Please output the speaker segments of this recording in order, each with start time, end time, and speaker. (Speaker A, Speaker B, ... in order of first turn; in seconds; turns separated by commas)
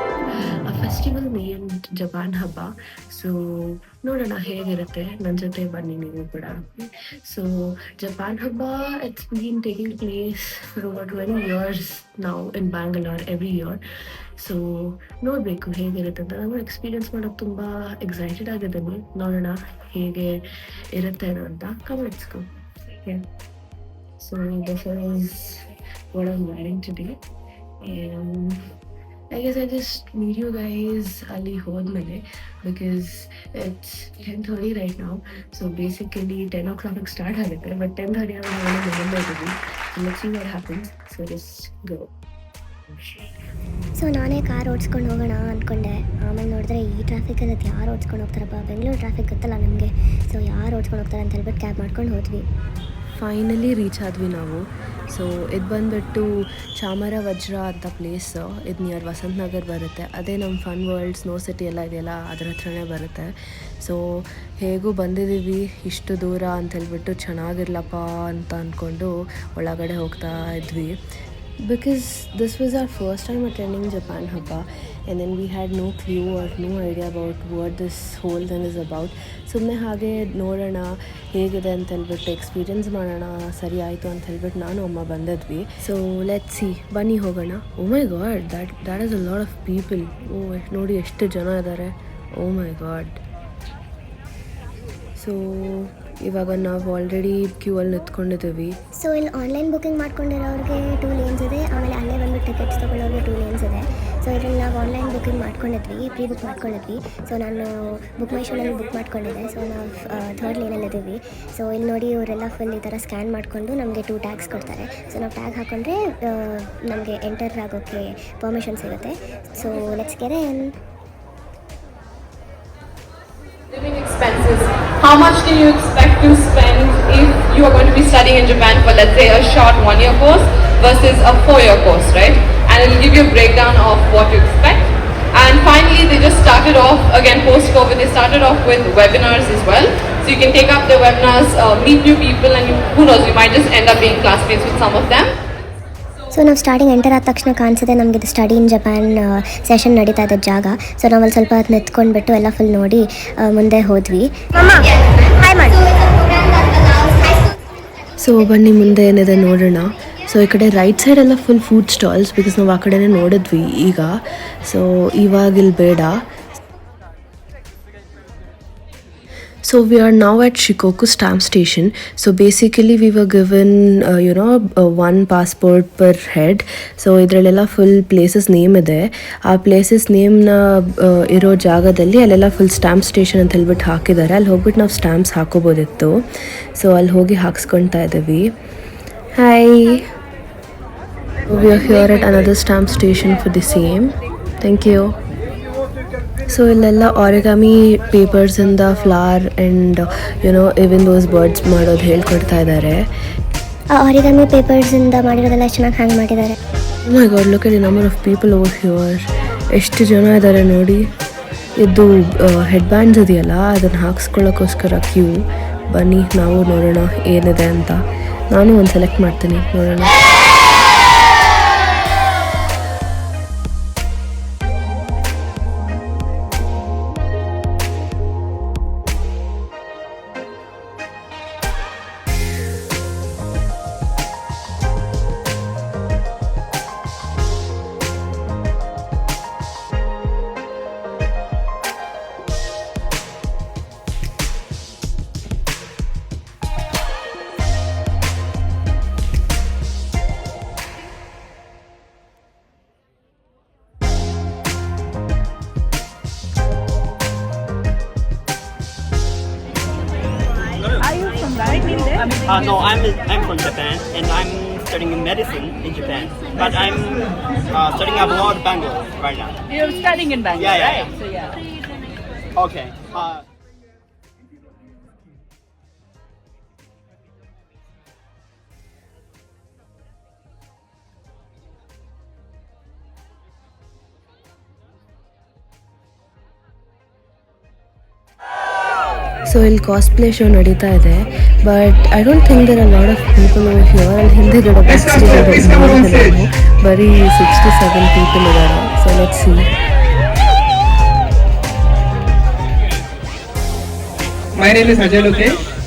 Speaker A: 0.6-13.8, Speaker A: 14.4-23.2, Speaker A: 24.2-27.2, Speaker A: 27.8-28.6, Speaker A: 29.3-42.1, Speaker B: 44.0-52.5, Speaker A: 53.1-71.0, Speaker A: 71.6-93.2, Speaker A: 95.2-98.8, Speaker B: 99.0-120.7, Speaker C: 123.7-145.3, Speaker B: 146.3-154.8, Speaker B: 155.4-155.8, Speaker A: 158.2-166.2, Speaker A: 169.6-188.5, Speaker A: 189.4-190.1, Speaker A: 191.5-195.2, Speaker A: 196.5-203.1, Speaker B: 203.9-206.6, Speaker A: 207.1-211.1, Speaker A: 211.8-220.2, Speaker D: 261.4-262.6, Speaker E: 262.5-269.6, Speaker D: 269.8-271.1, Speaker E: 270.6-271.1, Speaker E: 272.6-273.4, Speaker A: 289.5-299.7, Speaker F: 294.9-296.4, Speaker F: 304.6-305.6